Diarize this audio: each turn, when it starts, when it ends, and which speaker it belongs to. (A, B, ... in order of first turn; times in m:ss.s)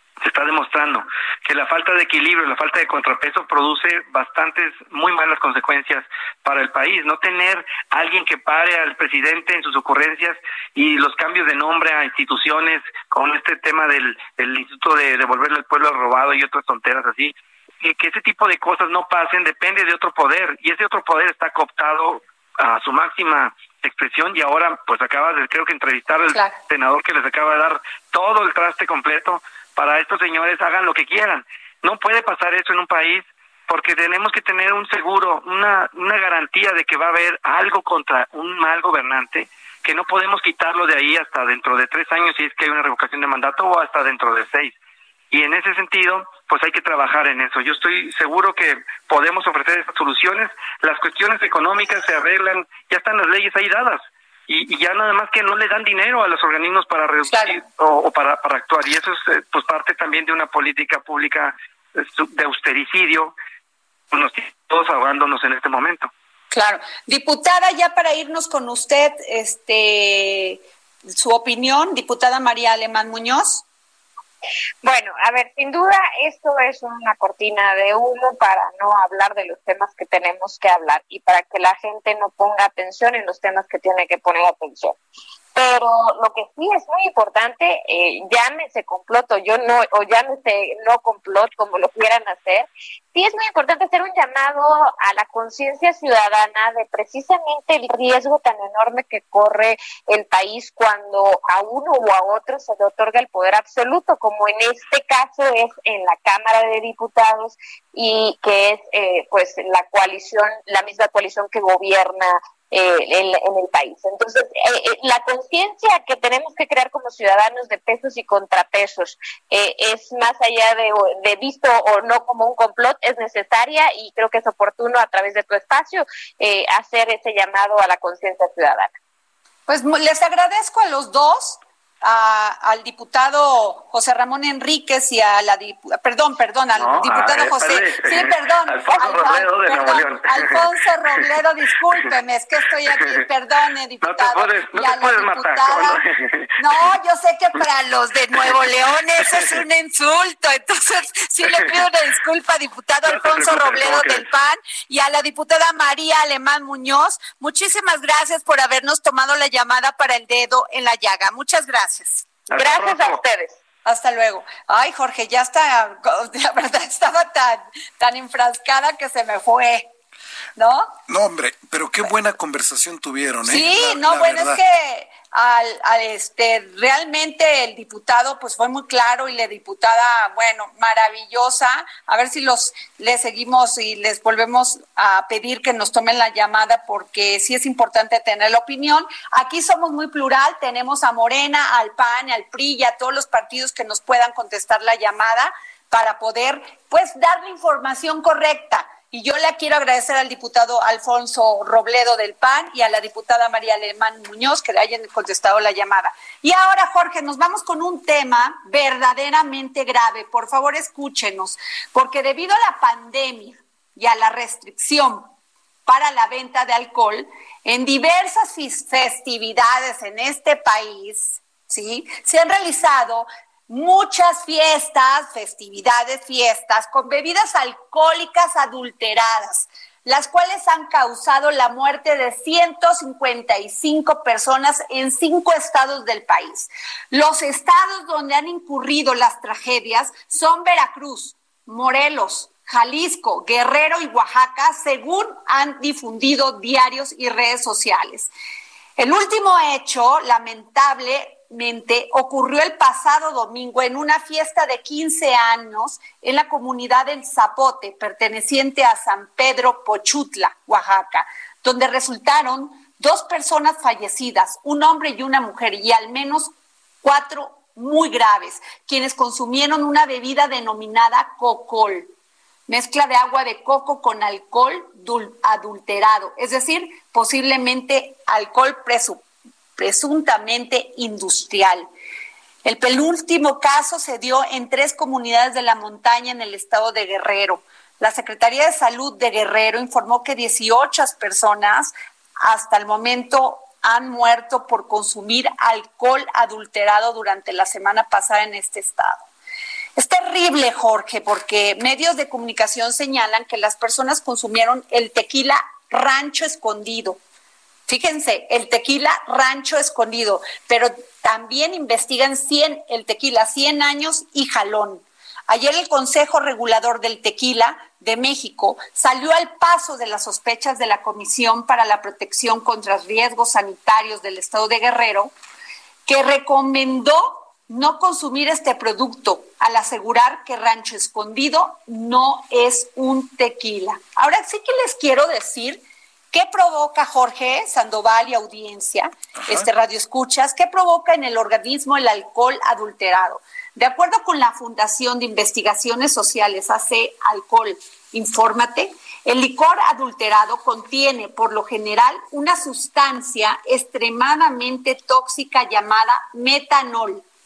0:00.2-0:44.7 A
0:45.3-1:03.3 A
0:57.3-0:57.6 B
1:04.1-1:06.1 A
1:06.5-1:10.6 B
1:11.1-1:13.6 B
1:14.8-1:25.0 C
1:25.5-2:08.9 C
2:09.7-2:26.0 B
2:16.7-2:21.3 A
2:22.9-2:23.2 A
2:24.0-2:26.9 A
2:26.6-2:42.3 B
2:29.2-2:29.6 A
2:33.0-2:34.2 A
2:42.5-2:43.2 A
2:42.5-2:43.5 C
2:43.8-2:49.9 B
2:50.6-2:51.0 B
2:51.1-2:54.6 D
2:53.4-3:35.3 B
3:35.9-4:08.3 B
4:09.0-4:26.5 B
4:27.0-4:32.1 B
4:32.7-4:39.2 B
4:39.8-4:41.9 B
4:42.6-4:59.2 B
5:00.0-5:07.2 B
5:07.9-5:25.3 B
5:26.0-5:57.2 B